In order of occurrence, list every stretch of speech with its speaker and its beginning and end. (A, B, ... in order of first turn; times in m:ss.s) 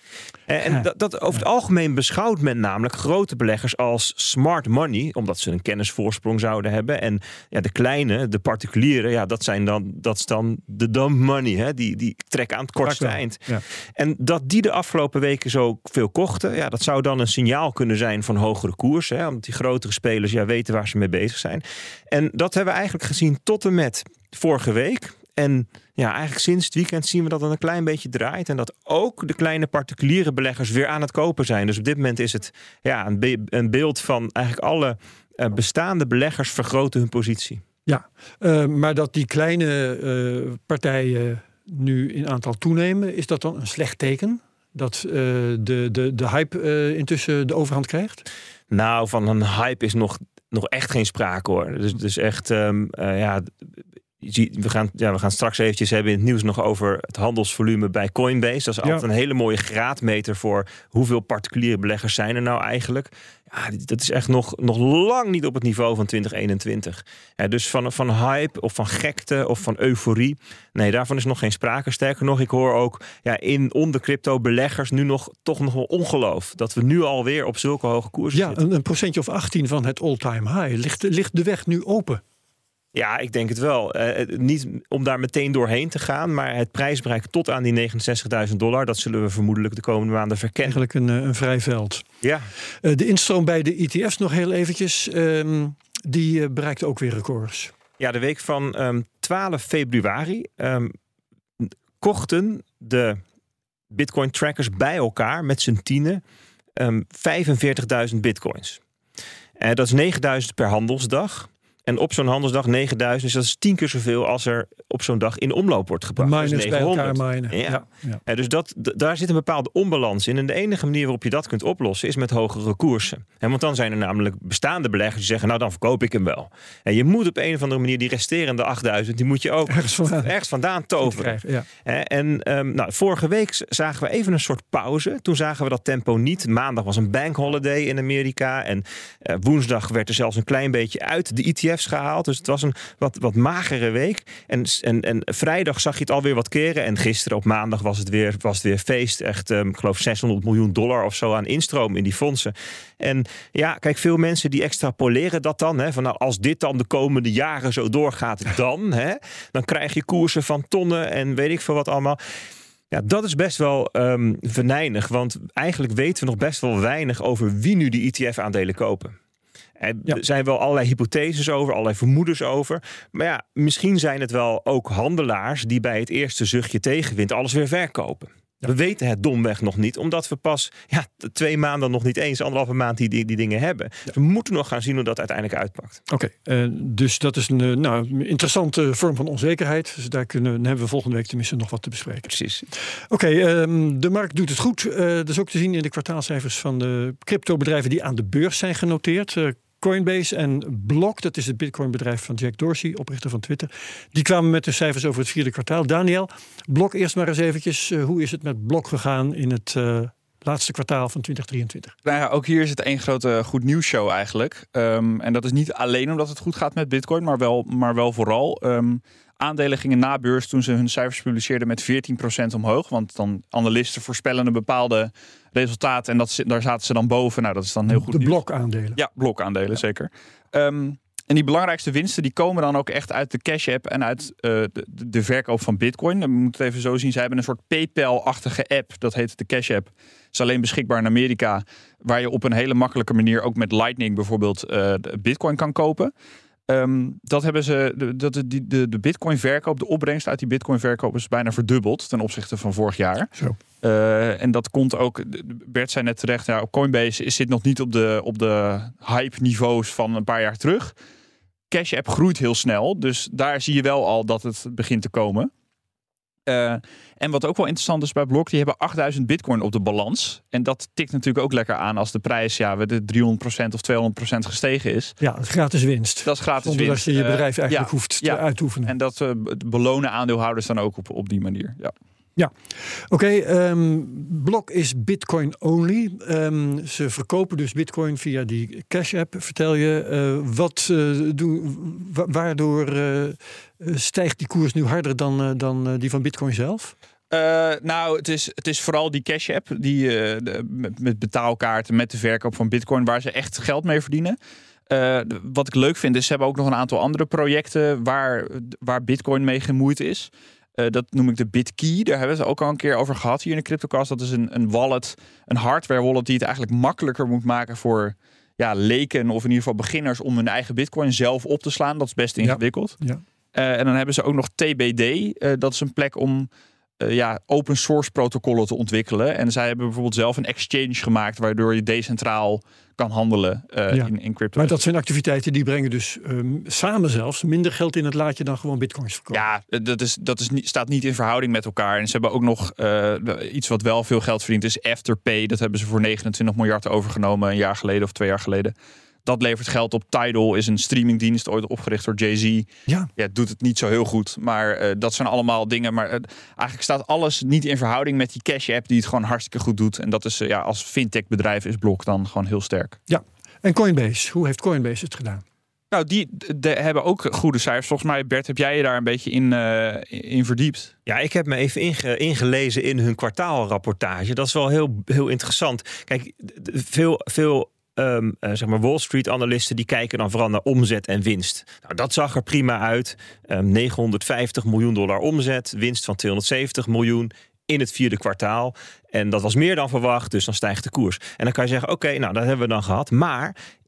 0:00.5-0:37.6 A
0:00.7-0:01.4 B
0:12.8-0:13.6 B
0:37.9-0:48.2 B
0:48.7-0:53.5 A
0:54.2-1:18.6 A
1:18.3-1:22.2 B
1:22.9-1:30.8 A
1:30.6-1:32.0 B
1:32.2-1:32.5 A
1:32.8-1:37.7 B
1:38.0-1:41.0 A
1:41.6-1:43.2 A
1:43.9-1:46.2 A
1:46.8-1:48.8 A
1:49.6-2:42.2 A
1:56.2-1:58.2 B
2:09.7-2:10.3 B
2:11.0-2:11.7 B
2:42.9-2:49.2 A
2:49.8-3:06.0 A
3:06.1-3:12.3 B
3:12.3-3:12.7 A
3:13.1-3:32.0 B
3:32.0-3:48.4 C
3:47.9-3:49.0 B
3:49.0-4:06.1 C
4:06.7-4:21.0 C
4:21.7-4:25.5 C
4:26.5-4:35.2 C
4:35.2-4:38.9 B
4:36.2-4:41.9 C
4:42.4-4:56.9 B
4:57.3-5:04.4 C
5:04.9-5:23.0 C
5:22.4-5:23.2 B
5:23.5-5:34.8 C
5:33.9-5:39.4 B
5:39.3-5:48.7 C
5:49.3-6:03.0 C
6:03.1-6:05.4 B
6:05.9-6:10.9 C
6:11.1-6:33.6 A